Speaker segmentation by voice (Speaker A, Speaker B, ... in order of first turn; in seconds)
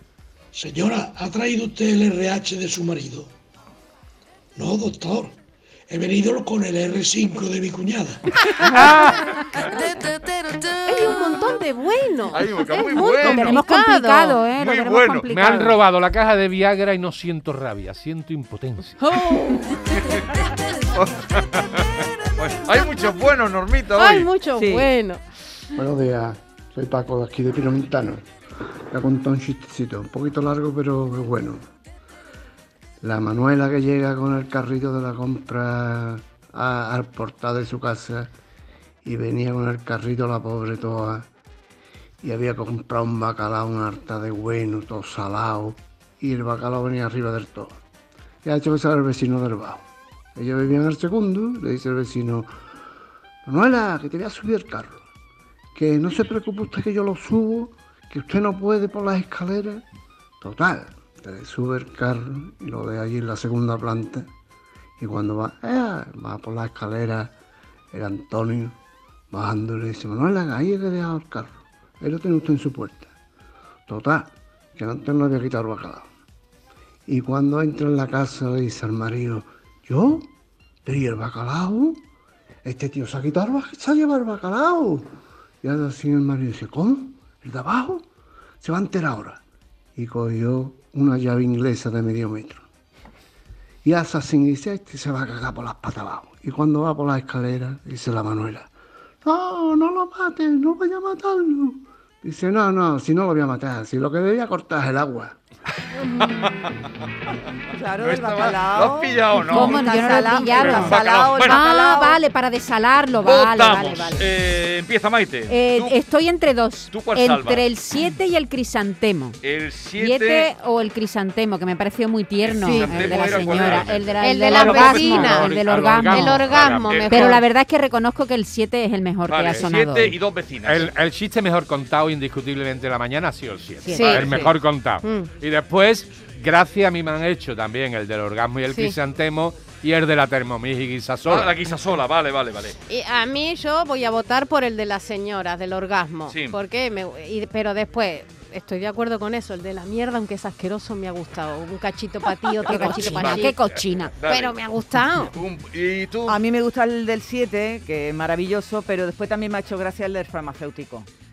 Speaker A: 0.5-3.3, 4.5-5.3, 5.9-8.2
Speaker B: 8.7-9.2, 15.3-19.0, 124.5-127.0, 130.6-141.6
Speaker C: 10.9-14.4, 19.0-19.8, 24.0-25.2, 124.2-125.5, 126.1-127.3, 133.9-134.2, 135.0-135.3, 142.9-153.6, 154.2-155.3
Speaker D: 12.3-13.6, 14.5-15.3, 20.0-20.4, 20.9-24.4, 106.0-106.6, 107.8-109.9, 110.4-111.7, 113.2-116.0, 116.9-117.7, 119.4-120.5, 122.4-124.5, 126.5-127.4, 129.3-130.9, 134.1-134.4, 141.2-142.8, 146.3-146.6, 153.0-156.4
Speaker E: 13.2-15.7, 109.5-114.3, 115.5-119.4, 120.0-126.4, 127.0-130.2, 133.8-134.2, 152.6-154.1
Speaker F: 24.6-24.8, 107.8-109.0, 109.5-112.1, 156.3-161.1
Speaker G: 25.8-28.2, 28.9-31.6, 33.0-38.3, 39.0-41.2, 42.2-47.8, 48.4-49.8, 50.4-52.5, 53.4-55.0, 55.7-59.8, 60.4-64.3, 65.0-67.3, 67.9-68.8, 69.3-73.1, 73.9-76.0, 77.1-80.3, 80.8-82.0, 82.6-85.0, 85.6-88.0, 88.6-89.4, 90.0-92.6, 93.8-98.7, 99.2-105.3